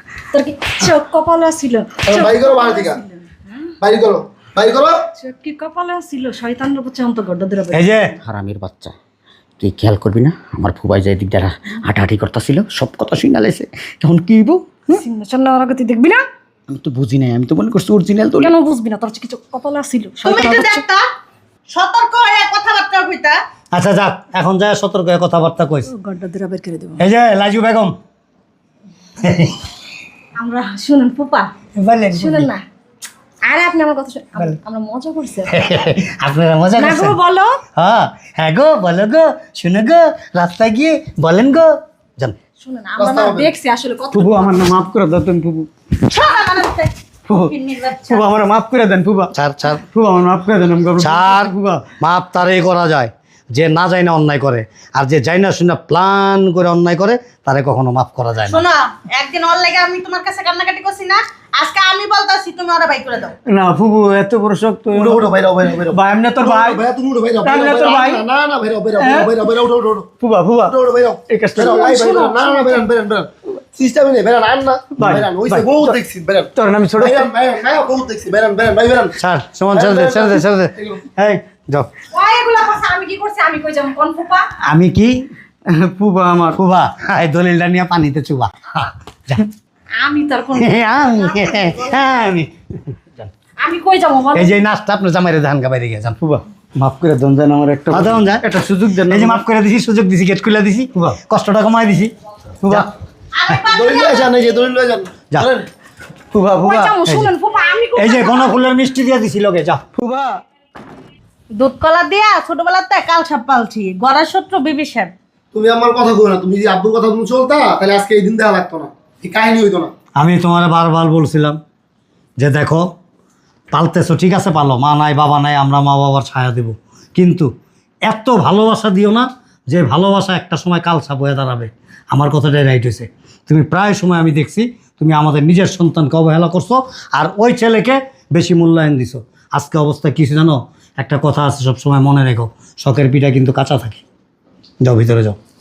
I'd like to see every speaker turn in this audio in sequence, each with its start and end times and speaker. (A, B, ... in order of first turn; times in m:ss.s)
0:00.3-0:03.7 A
0:02.1-0:03.0 B
0:03.8-0:05.0 B
0:05.2-0:08.1 A
0:07.7-0:08.2 C
0:08.2-0:08.9 D
0:09.6-0:14.8 D
0:14.9-0:16.2 A
0:16.7-0:18.5 D
0:18.4-0:20.8 A
0:20.2-0:21.0 E
0:21.7-0:23.4 E
0:23.7-0:25.9 C
0:25.9-0:27.0 A
0:27.0-0:28.0 C
0:29.2-0:29.6 C
0:30.4-0:31.5 A
0:31.8-0:32.5 C
0:32.1-0:32.6 A
0:33.4-0:35.5 A
0:35.5-0:37.2 C
0:36.8-0:37.6 A
0:37.8-0:42.4 C
0:42.6-0:44.8 A
0:43.0-0:43.5 B
0:44.1-0:45.7 D
0:46.0-0:48.3 E
0:48.0-0:49.3 D
0:49.3-0:49.8 C
0:49.9-0:51.8 D
0:51.0-0:58.6 C
0:58.5-1:03.4 E
1:03.5-1:06.8 D
1:04.9-1:10.1 B
1:07.4-1:08.2 D
1:09.0-1:09.4 D
1:10.2-1:10.7 D
1:10.7-1:19.1 B
1:11.3-1:11.8 D
1:11.6-1:12.8 A
1:15.0-1:15.9 D
1:16.6-1:17.2 D
1:19.2-1:21.9 C
1:19.7-1:21.0 B
1:22.1-1:24.5 A
1:24.6-1:25.2 C
1:25.7-1:26.6 D
1:26.6-1:29.5 C
1:30.0-1:31.8 A
1:30.5-1:33.3 C
1:33.6-1:34.6 A
1:34.3-1:36.2 C
1:36.2-1:39.4 D
1:37.9-1:38.5 C
1:39.1-1:42.1 C
1:43.4-1:44.3 E
1:43.7-1:45.7 B
1:46.3-1:47.0 D
1:46.6-1:48.6 A
1:47.0-1:47.3 C
1:48.0-1:49.8 C
1:50.0-1:50.4 D
1:51.6-1:55.1 E
1:55.5-1:59.9 B
2:00.2-2:01.6 C
2:02.4-2:02.9 C
2:03.7-2:07.5 C
2:08.1-2:24.0 C
2:24.8-2:25.4 C